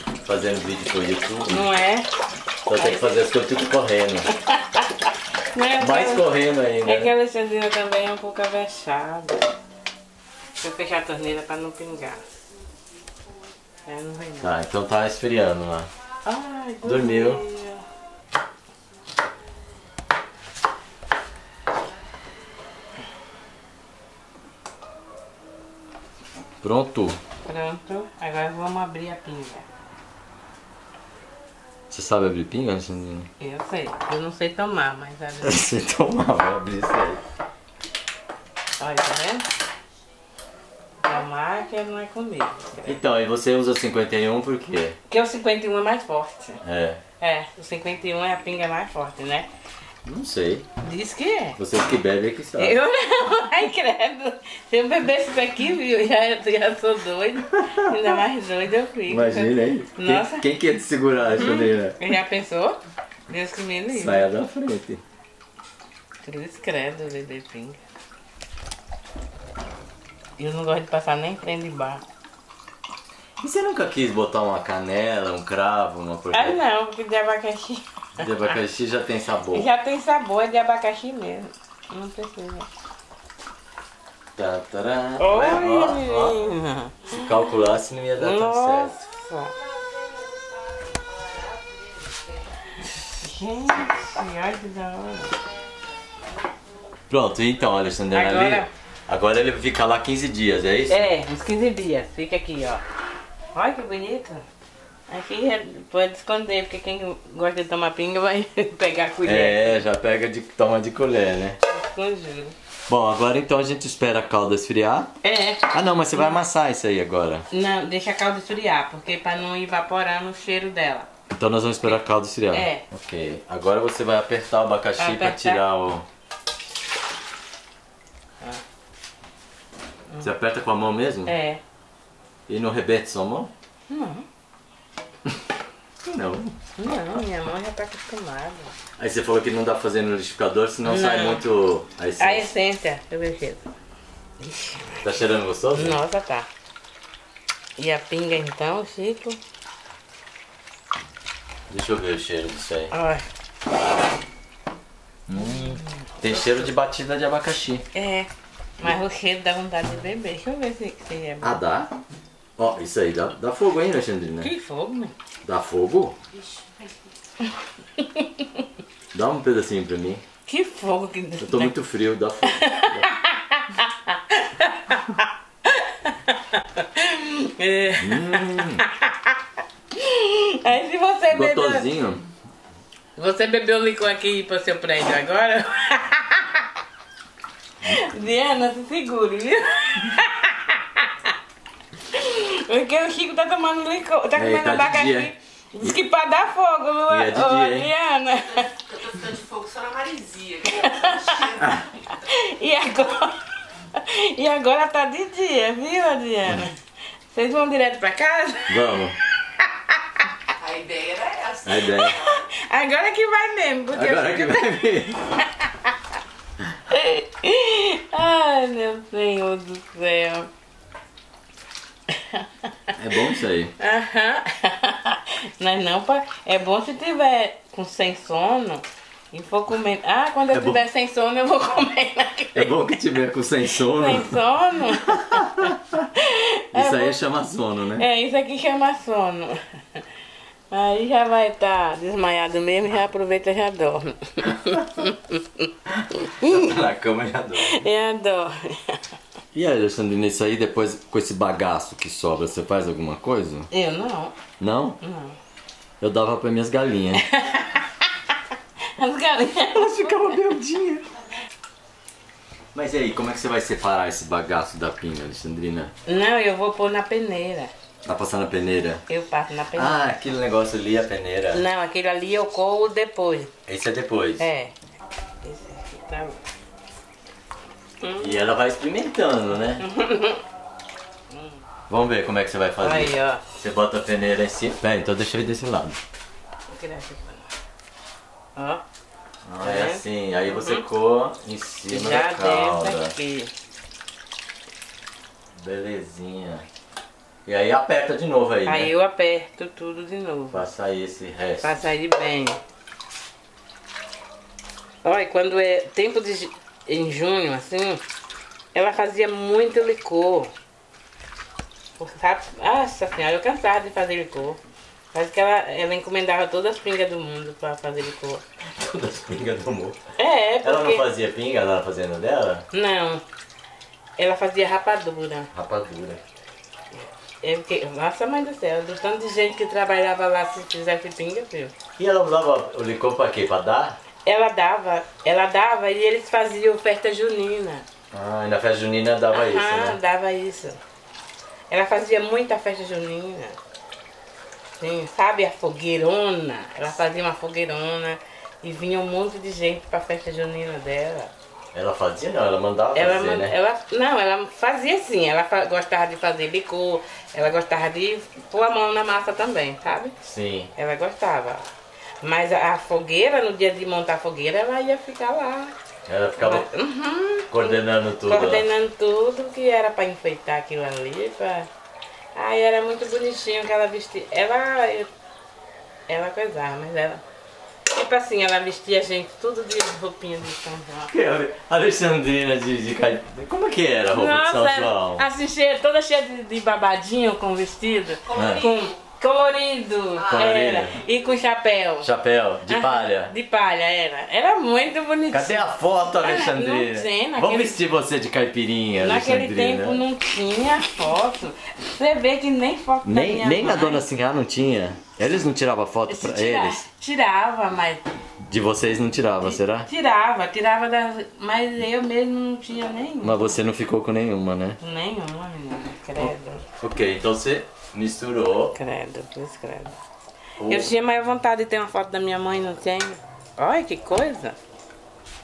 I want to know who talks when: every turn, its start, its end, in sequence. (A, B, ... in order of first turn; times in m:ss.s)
0:00.2-0:01.7 A
0:01.5-0:02.1 B
0:02.7-0:04.3 A
0:02.7-0:03.2 B
0:04.4-0:06.3 B
0:05.8-0:07.1 A
0:06.8-0:09.4 B
0:10.6-0:12.2 B
0:13.9-0:14.5 B
0:14.4-0:15.9 A
0:16.3-0:17.8 B
0:16.8-0:17.4 A
0:26.6-0:27.2 A
0:27.4-0:29.7 B
0:31.9-0:33.3 A
0:33.4-0:35.6 B
0:35.4-0:37.2 A
0:38.8-0:39.5 B
0:41.0-0:43.0 B
0:42.8-0:45.0 A
0:45.1-0:46.6 B
0:46.6-0:47.0 A
0:47.2-0:49.5 B
0:50.1-0:50.7 A
0:50.8-0:51.6 B
0:51.6-0:52.8 A
0:52.6-1:00.4 B
0:57.5-0:58.2 A
0:59.1-1:02.0 A
1:01.4-1:04.3 B
1:03.9-1:05.0 A
1:06.2-1:07.8 B
1:10.4-1:12.0 B
1:13.4-1:16.6 A
1:16.3-1:18.3 B
1:18.2-1:19.7 A
1:19.5-1:22.7 B
1:24.4-1:26.4 A
1:25.2-1:27.2 B
1:27.1-1:29.0 A
1:28.2-1:29.6 B
1:31.0-1:32.2 C
1:33.1-1:35.4 B
1:37.1-1:41.1 A
1:38.1-1:38.7 B
1:40.9-1:42.8 B
1:43.6-1:44.4 B
1:45.1-1:49.8 B
1:49.2-1:51.6 A
1:51.7-1:52.6 B
1:52.9-1:55.1 A
1:55.2-1:56.4 B
1:55.7-1:57.5 A
1:57.5-2:01.1 B
2:01.3-2:06.1 A
2:02.5-2:02.8 B
2:05.0-2:05.6 B
2:10.2-2:11.3 A
2:11.3-2:11.6 B
2:12.5-2:13.5 A
2:13.9-2:14.3 B
2:16.0-2:16.6 A
2:16.8-2:18.7 B
2:19.0-2:22.5 A
2:20.8-2:21.4 B
2:22.2-2:23.7 B
2:24.4-2:25.0 B
2:25.0-2:26.0 A
2:25.7-2:26.5 B
2:27.8-2:29.4 B
2:31.7-2:32.9 A
2:32.9-2:33.2 B
2:35.3-2:37.8 A
2:35.4-2:36.5 B
2:37.9-2:38.3 B
2:38.8-2:41.5 B
2:41.4-2:41.9 A
2:42.6-2:44.5 A
2:44.4-2:45.2 B
2:45.4-2:46.2 A
2:48.0-2:48.6 B
2:49.1-2:50.2 A
2:50.5-2:51.7 B
2:51.4-2:53.1 A
2:52.4-2:59.4 B
2:58.0-2:58.8 A
3:00.0-3:01.9 B
3:01.3-3:02.2 A
3:03.2-3:06.7 B
3:07.8-3:11.3 B
3:12.1-3:18.7 B
3:14.4-3:16.0 A
3:17.1-3:17.9 A
3:18.4-3:21.9 C
3:20.7-3:23.4 B
3:23.9-3:26.8 B
3:27.3-3:28.9 B
3:28.7-3:29.2 A
3:29.6-3:30.4 B
3:30.6-3:32.4 C
3:31.6-3:32.2 A
3:32.1-3:36.0 B
3:33.9-3:35.4 A
3:36.9-3:40.5 B
3:42.1-3:52.9 B
3:43.0-3:43.7 A
3:50.5-3:50.8 A
3:52.6-3:54.4 A
3:53.9-3:57.2 B
3:55.1-3:56.1 A
3:56.7-3:58.1 A
3:58.0-4:00.0 B
4:00.7-4:06.8 B
4:06.4-4:07.8 A
4:07.6-4:09.0 B
4:09.5-4:13.7 A
4:13.7-4:14.4 B
4:14.6-4:15.0 A
4:15.0-4:15.4 B
4:16.0-4:17.2 A
4:17.2-4:18.0 B
4:19.0-4:20.3 B
4:19.7-4:21.0 A
4:22.7-4:25.9 A
4:26.1-4:27.7 B
4:28.0-4:29.0 A
4:29.1-4:30.0 B
4:29.8-4:31.6 A
4:31.5-4:33.5 B
4:33.7-4:34.4 A
4:34.4-4:34.7 B
4:35.4-4:36.4 B
4:38.0-4:38.4 B
4:38.2-4:39.8 A
4:39.8-4:40.4 B
4:41.9-4:46.0 A
4:42.8-4:43.4 B
4:46.7-4:47.5 B
4:48.6-4:48.8 B
4:49.4-4:53.1 A
4:49.6-4:50.8 B
4:51.9-4:53.5 B
4:55.6-4:56.6 A
4:57.5-4:58.9 A
4:58.7-5:00.6 B
5:00.5-5:01.7 A
5:01.6-5:02.6 B
5:05.0-5:08.0 B
5:08.7-5:10.5 B
5:12.0-5:14.6 B
5:15.1-5:18.4 B
5:18.8-5:20.0 A
5:20.2-5:21.0 B
5:20.6-5:22.6 A
5:22.7-5:23.2 B
5:24.2-5:25.5 B
5:25.5-5:26.2 A
5:27.4-5:31.7 B
5:32.0-5:34.0 A
5:34.2-5:37.8 B
5:38.1-5:40.0 A
5:39.3-5:40.8 B
5:41.7-5:43.6 B
5:44.8-5:51.3 B
5:51.7-5:53.6 A
5:53.0-6:00.2 B
6:00.2-6:00.7 A
6:00.8-6:01.6 B
6:02.2-6:05.7 B
6:06.1-6:06.7 A
6:06.4-6:11.7 B
6:07.5-6:08.6 A
6:12.4-6:15.1 B
6:16.1-6:17.2 B
6:17.9-6:21.1 B
6:21.1-6:25.2 A
6:24.1-6:32.1 B
6:28.2-6:29.0 C
6:28.4-6:28.6 A
6:30.2-6:30.6 C
6:30.3-6:31.0 A
6:32.0-6:33.3 A
6:32.7-6:37.8 B
6:35.3-6:40.0 A
6:39.0-6:44.0 B
6:43.0-6:46.8 A
6:46.1-6:48.0 B
6:48.4-6:49.9 A
6:49.8-6:53.6 B
6:53.2-6:54.8 A
6:54.8-6:56.6 B
6:56.2-6:58.8 A
6:58.8-7:00.0 B
7:00.6-7:00.9 A
7:00.7-7:04.6 B